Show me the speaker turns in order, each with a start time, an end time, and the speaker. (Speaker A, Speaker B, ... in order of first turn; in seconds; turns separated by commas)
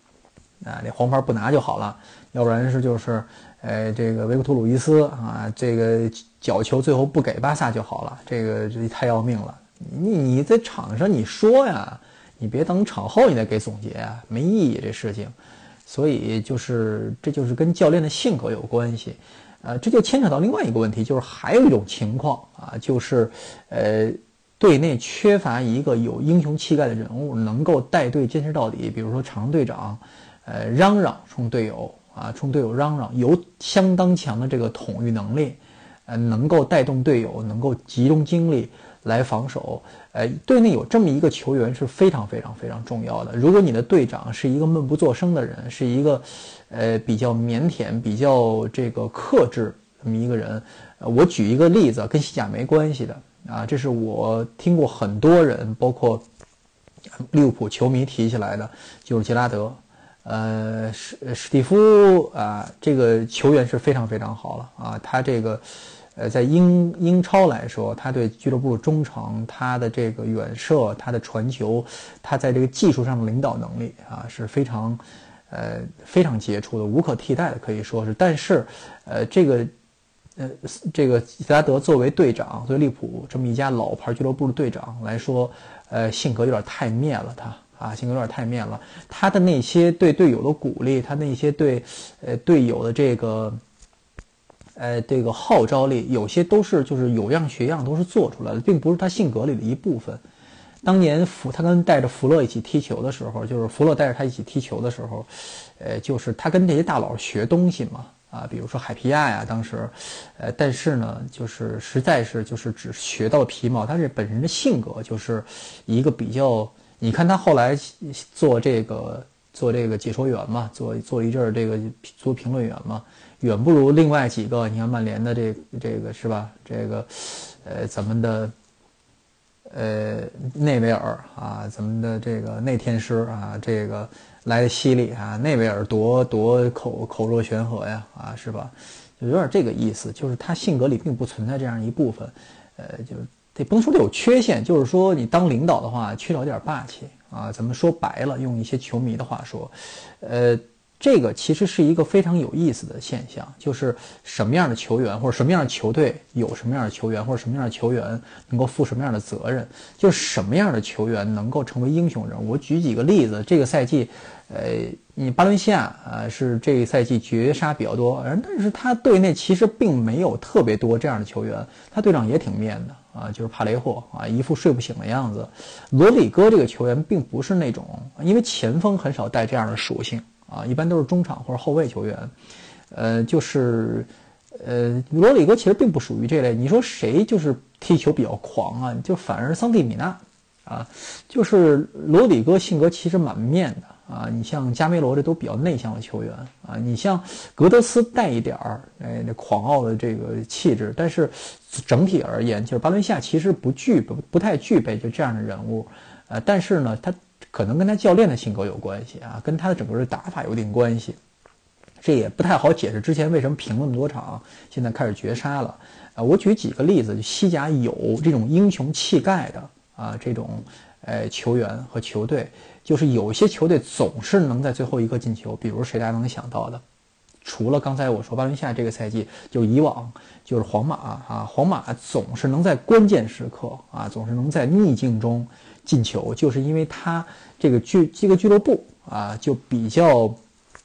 Speaker A: 0.6-15.3, Speaker A: 15.9-56.2, Speaker A: 57.3-79.7, Speaker A: 80.4-93.6, Speaker A: 94.8-100.2, Speaker A: 100.8-128.5, Speaker A: 129.7-182.3, Speaker A: 182.9-211.2, Speaker A: 212.0-226.8, Speaker A: 227.4-240.4